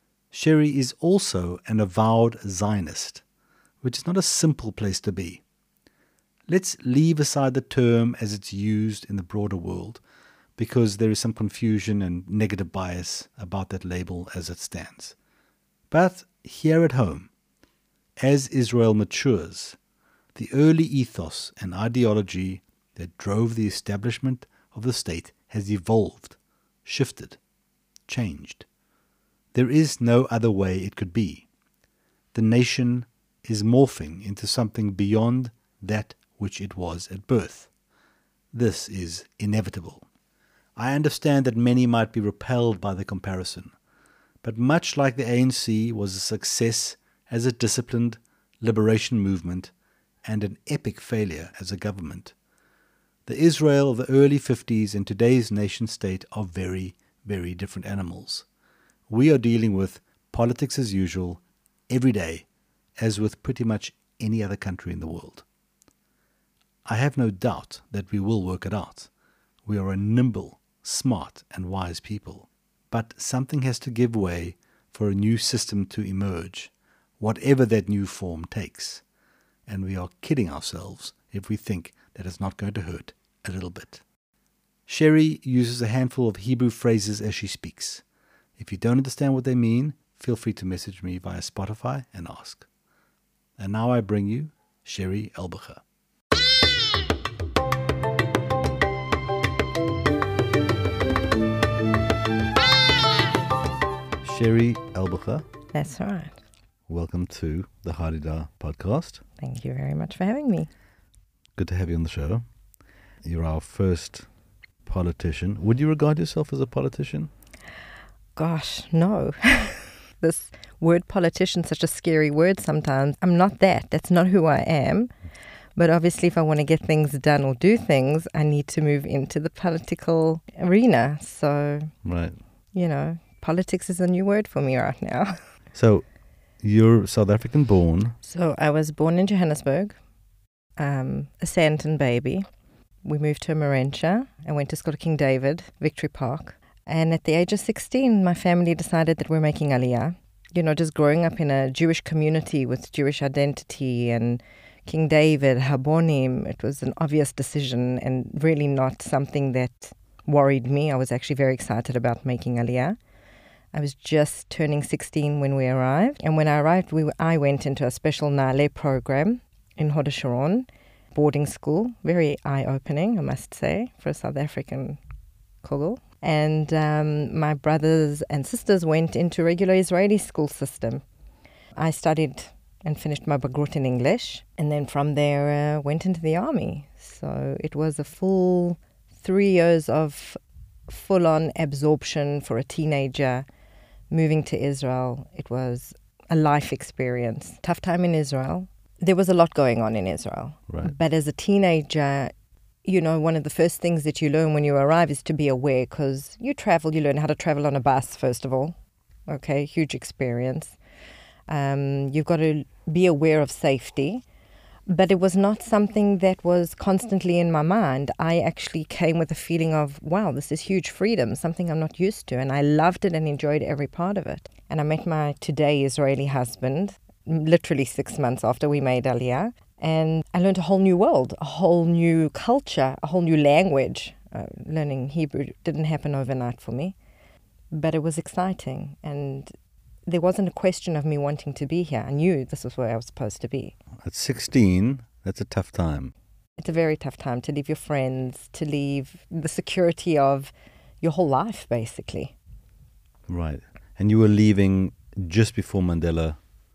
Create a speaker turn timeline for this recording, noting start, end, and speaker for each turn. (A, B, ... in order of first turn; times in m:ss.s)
0:00.3-0:03.2 A
0:03.8-0:05.4 A
0:06.5-0:10.0 A
0:10.6-0:15.2 A
0:15.9-0:17.3 A
0:18.2-0:19.8 A
0:20.3-0:27.4 A
0:28.1-0:28.6 A
0:29.5-0:31.4 A
0:32.3-0:37.7 A
0:38.5-0:40.0 A
0:40.8-0:43.7 A
0:44.4-0:49.7 A
0:50.2-0:52.3 A
0:53.2-0:58.4 A
0:59.1-1:02.4 A
1:03.0-1:05.4 A
1:06.8-1:09.1 A
1:09.6-1:19.0 A
1:19.7-1:24.0 A
1:24.9-1:28.0 A
1:28.6-1:32.6 A
1:33.6-1:35.8 A
1:44.2-1:45.4 A
1:45.7-1:46.3 B
1:46.9-1:49.2 A
1:49.4-1:50.7 B
1:51.6-1:52.4 A
1:53.2-1:54.3 A
1:54.8-1:57.3 A
1:58.4-2:05.1 B
2:05.8-2:11.9 B
2:12.0-2:12.4 A
2:12.7-2:15.4 B
2:15.7-2:16.0 A
2:16.6-2:18.2 A
2:18.2-2:20.0 B
2:20.8-2:22.4 B
2:23.0-2:43.0 B
2:43.7-2:55.0 B
2:55.6-3:01.0 B
3:01.8-3:13.4 B
3:14.1-3:22.3 B
3:22.8-3:28.7 B
3:29.3-3:30.8 B
3:31.5-3:34.2 B
3:34.9-3:56.9 B
3:57.7-3:59.5 B
4:00.0-4:03.7 B
4:04.0-4:06.1 A
4:06.6-4:12.3 B
4:13.3-4:16.4 A